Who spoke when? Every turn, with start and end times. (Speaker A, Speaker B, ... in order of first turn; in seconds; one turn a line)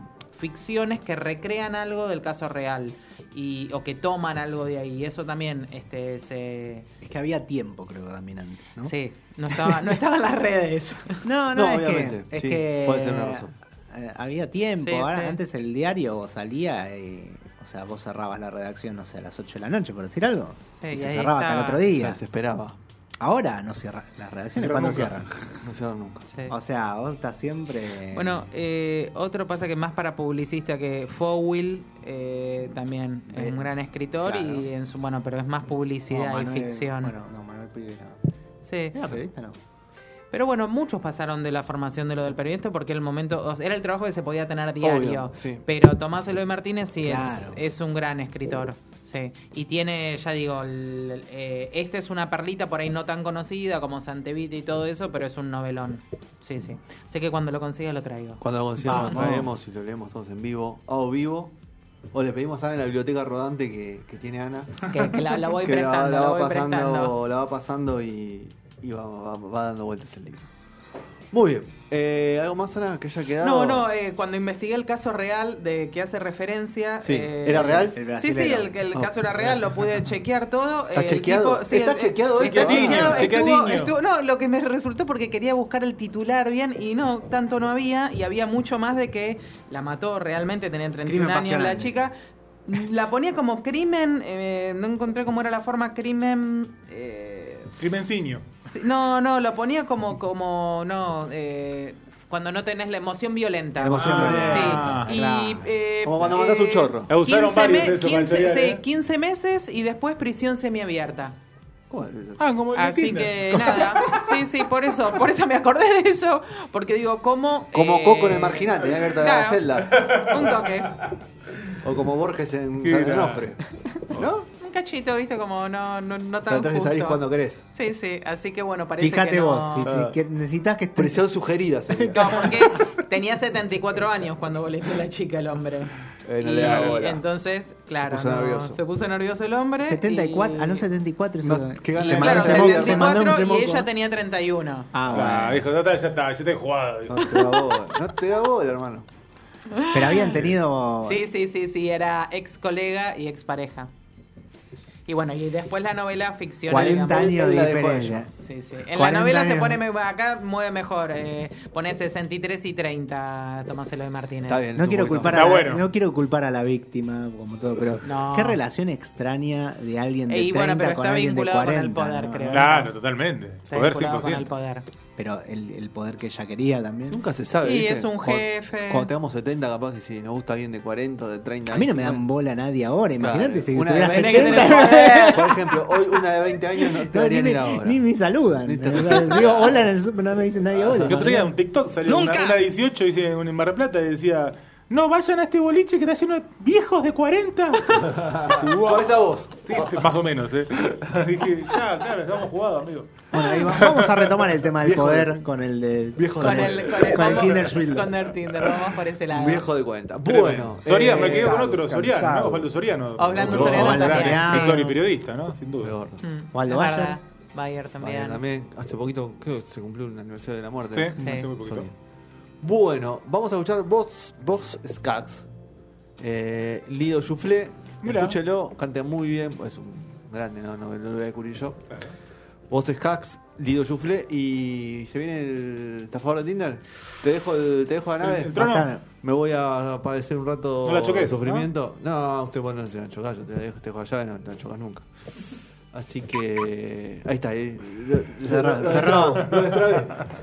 Speaker A: 0.3-6.8
Speaker B: 7.0-8.9
Speaker A: 8.8-11.2
Speaker B: 11.2-22.2
Speaker C: 11.5-13.5
Speaker A: 14.8-15.4
Speaker A: 20.8-21.9
Speaker C: 21.9-22.8
Speaker B: 23.2-25.3
Speaker D: 24.5-25.2
Speaker C: 25.6-26.2
Speaker A: 26.3-26.5
Speaker B: 26.5-28.4
Speaker A: 28.1-37.1
Speaker B: 33.3-33.7
Speaker B: 34.2-34.7
Speaker B: 36.1-38.2
Speaker A: 38.6-39.0
Speaker B: 38.9-39.5
Speaker A: 40.3-59.2
Speaker C: 44.8-45.6
Speaker B: 47.0-47.6
Speaker C: 58.4-61.5
Speaker B: 58.8-59.5
Speaker C: 62.1-64.8
Speaker A: 64.9-67.1
Speaker C: 65.6-70.5
Speaker C: 71.3-73.9
Speaker A: 73.4-92.1
Speaker C: 77.0-78.0
Speaker B: 77.9-78.6
Speaker C: 80.9-83.3
Speaker D: 82.4-83.9
Speaker B: 91.0-92.0
Speaker A: 92.7-97.8
Speaker D: 97.8-98.4
Speaker A: 98.6-111.4
Speaker C: 103.8-104.8
Speaker B: 103.9-105.7
Speaker D: 103.9-105.2
Speaker C: 106.0-107.1
Speaker D: 107.1-108.8
Speaker C: 111.9-112.4
Speaker D: 112.4-114.3
Speaker A: 112.7-121.0
Speaker C: 117.7-120.0
Speaker D: 120.0-120.4
Speaker C: 121.8-124.4
Speaker D: 122.8-123.5
Speaker A: 124.6-130.0
Speaker C: 126.4-127.6
Speaker B: 129.0-131.3
Speaker C: 129.8-130.1
Speaker C: 130.9-132.8
Speaker B: 131.9-132.8
Speaker A: 132.2-140.8
Speaker C: 136.2-137.2
Speaker D: 136.6-136.9
Speaker C: 138.0-138.8
Speaker B: 139.8-143.9
Speaker C: 141.4-143.1
Speaker A: 141.9-144.9
Speaker B: 144.9-145.7
Speaker D: 145.1-147.3
Speaker C: 147.1-149.1
Speaker A: 149.7-150.4
Speaker B: 149.9-151.2
Speaker A: 151.0-153.9
Speaker A: 155.1-157.3
Speaker B: 156.7-158.3
Speaker C: 156.8-158.3
Speaker A: 158.4-164.6
Speaker B: 158.9-159.8
Speaker C: 164.4-165.6
Speaker B: 164.7-172.8
Speaker D: 165.3-165.8
Speaker A: 168.0-168.6
Speaker A: 170.3-172.9
Speaker D: 172.5-174.5
Speaker A: 173.7-174.8
Speaker B: 175.2-177.2
Speaker C: 177.1-182.2
Speaker A: 177.6-179.1
Speaker B: 181.7-185.6
Speaker C: 183.2-188.0
Speaker A: 184.1-185.5
Speaker B: 187.0-191.5
Speaker C: 188.6-189.8
Speaker D: 190.9-204.3
Speaker C: 198.4-200.1
Speaker B: 203.3-208.2
Speaker C: 204.8-205.4
Speaker C: 206.2-207.2
Speaker A: 206.4-209.7
Speaker D: 207.3-207.7
Speaker C: 209.3-211.6
Speaker D: 210.2-215.9
Speaker B: 210.8-212.7
Speaker A: 213.2-214.7
Speaker C: 213.4-214.1
Speaker B: 213.4-215.0
Speaker C: 215.8-216.2
Speaker A: 216.2-218.4
Speaker B: 216.5-217.2
Speaker C: 218.0-221.9
Speaker D: 220.9-221.9
Speaker B: 221.2-221.5
Speaker A: 221.2-221.5
Speaker C: 222.6-225.4
Speaker C: 226.2-231.8
Speaker D: 228.0-228.4
Speaker C: 232.7-238.5
Speaker D: 238.2-238.9
Speaker B: 238.5-239.0
Speaker C: 239.2-250.3
Speaker D: 240.8-241.7
Speaker B: 248.4-249.5